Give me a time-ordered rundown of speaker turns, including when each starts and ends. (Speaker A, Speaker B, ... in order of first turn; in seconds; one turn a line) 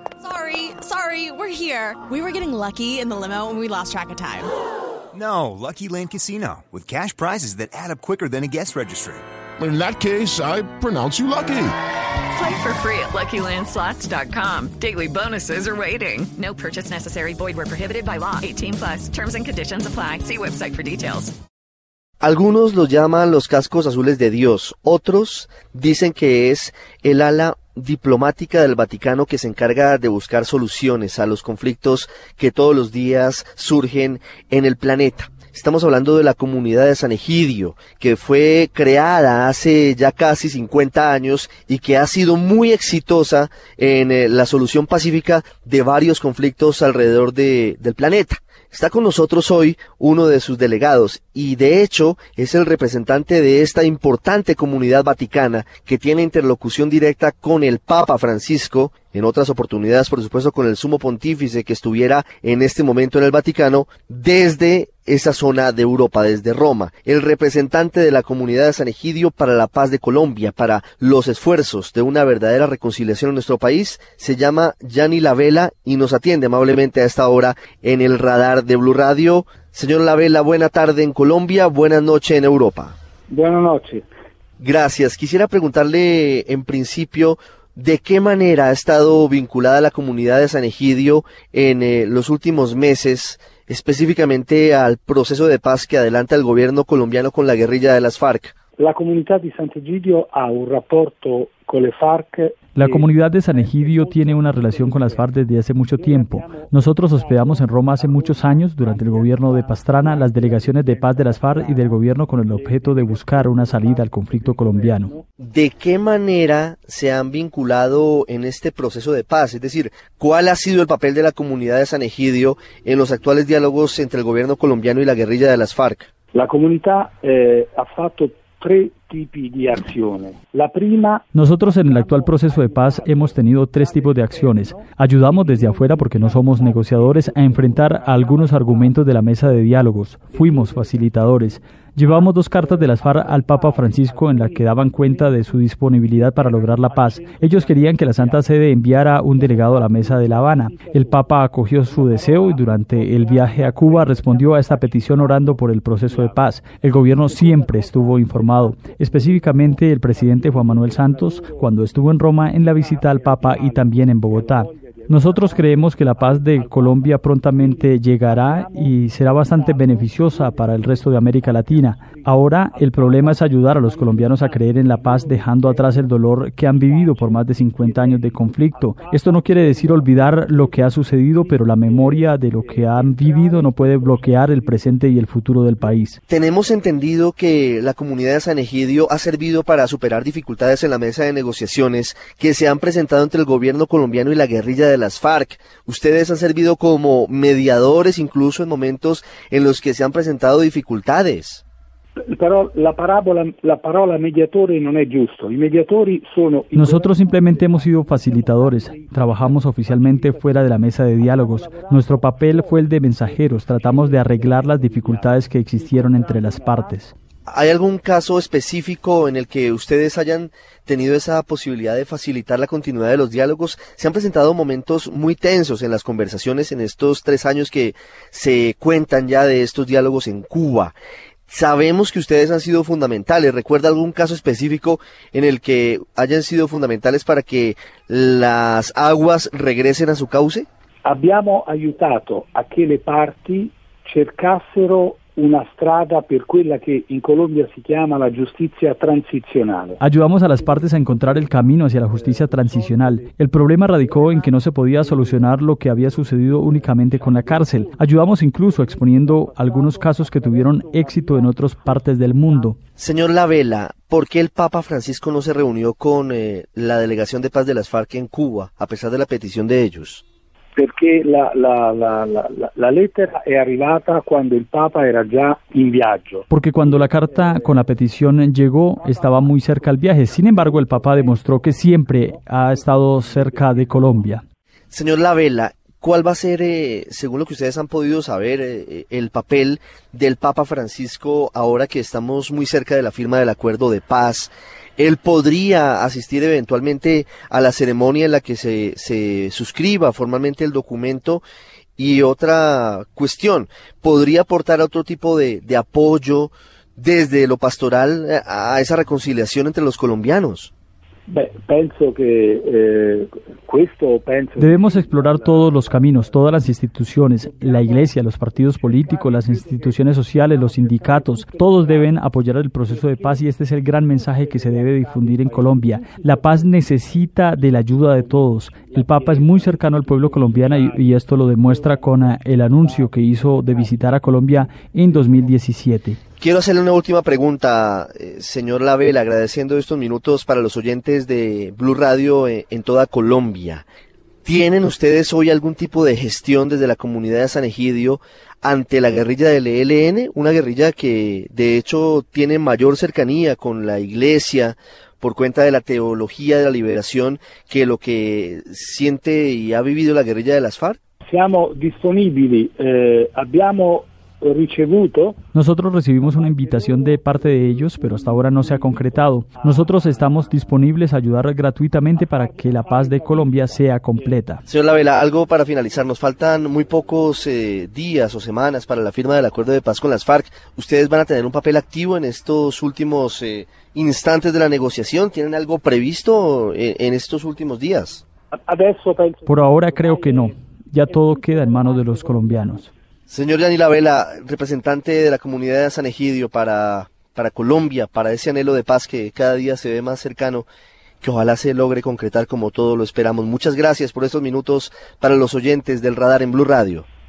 Speaker A: 0.4-4.4
Speaker B: 1.9-2.2
Speaker C: 5.1-9.2
Speaker D: 9.6-11.7
Speaker B: 12.3-21.3
Speaker E: 22.2-83.0
Speaker F: 83.3-84.1
Speaker E: 84.6-98.5
Speaker F: 98.8-115.2
Speaker G: 102.8-115.1
Speaker E: 115.4-126.1
Speaker F: 126.3-185.2
Speaker G: 131.3-186.2
Speaker F: 185.8-186.1
Speaker E: 186.3-201.6
Speaker F: 202.3-217.1
Speaker G: 206.7-217.1
Speaker E: 217.5-230.9
Speaker E: 231.5-240.7
Speaker F: 241.1-262.7
Speaker G: 250.0-262.8
Speaker E: 263.0-270.2
Speaker F: 270.8-278.1
Speaker G: 276.5-284.4
Speaker F: 278.9-284.4
Speaker E: 284.9-301.4
Speaker E: 302.0-310.7
Speaker F: 311.3-335.6
Speaker G: 314.6-336.2
Speaker E: 336.4-343.9
Speaker E: 344.4-361.0
Speaker F: 361.2-365.4
Speaker G: 365.5-374.6
Speaker F: 366.2-370.9
Speaker F: 372.2-374.6
Speaker E: 374.7-388.2
Speaker F: 388.6-390.6
Speaker G: 389.5-392.9
Speaker F: 391.1-392.9
Speaker E: 393.3-400.7
Speaker E: 401.2-407.1